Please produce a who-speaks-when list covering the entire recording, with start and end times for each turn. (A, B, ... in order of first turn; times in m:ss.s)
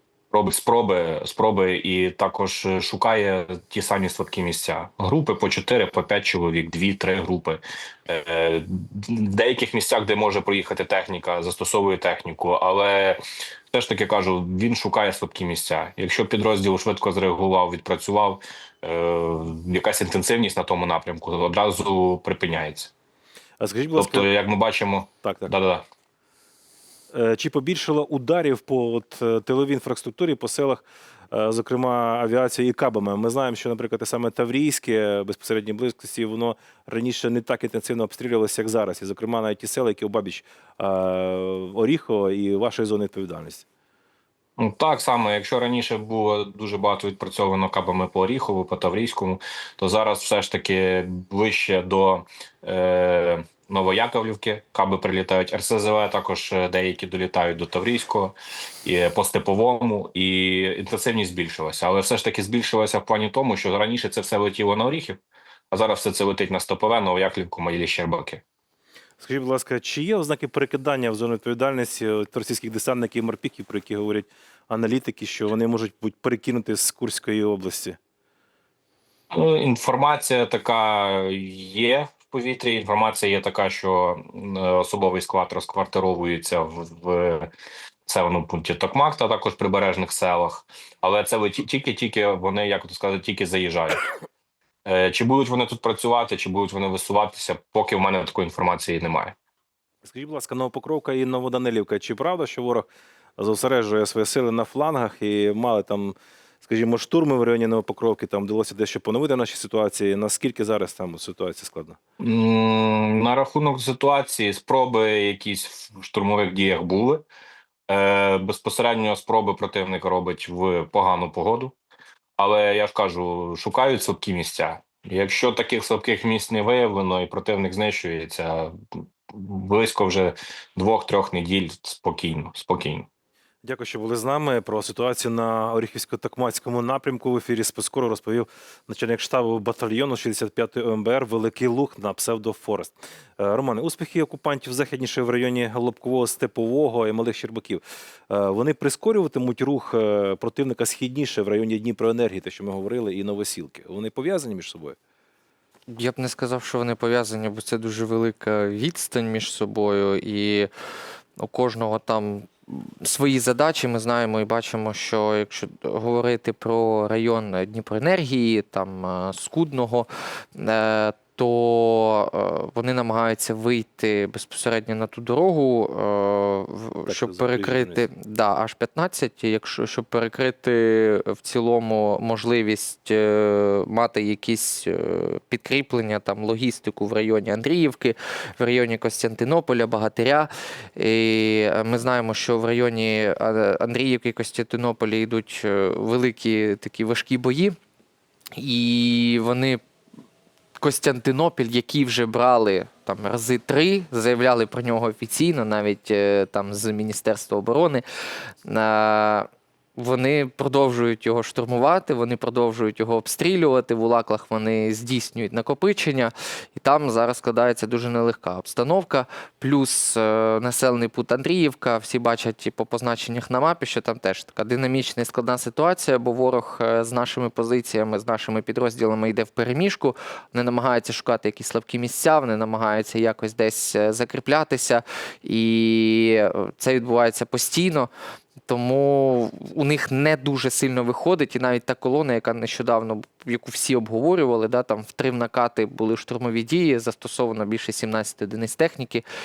0:00.3-0:22.9 A
0:23.6-0:24.3 B
0:24.0-0:25.8 A
0:25.2-0:25.5 B
0:27.1-0:43.6 B
0:44.6-1:05.2 A
1:05.7-1:08.4 A
1:09.2-1:18.0 B
1:19.3-1:27.5 A
1:28.0-1:34.0 A
1:34.8-1:39.4 A
1:40.0-1:52.0 B
1:52.2-1:57.2 A
1:57.9-2:01.8 A
2:02.4-2:13.1 A
2:13.6-2:35.0 B
2:35.9-2:40.7 C
2:41.4-3:17.8 C
2:57.0-2:58.0 B
3:18.5-3:19.8 C
3:20.8-3:28.0 C
3:28.6-3:58.1 C
3:58.6-4:09.2 C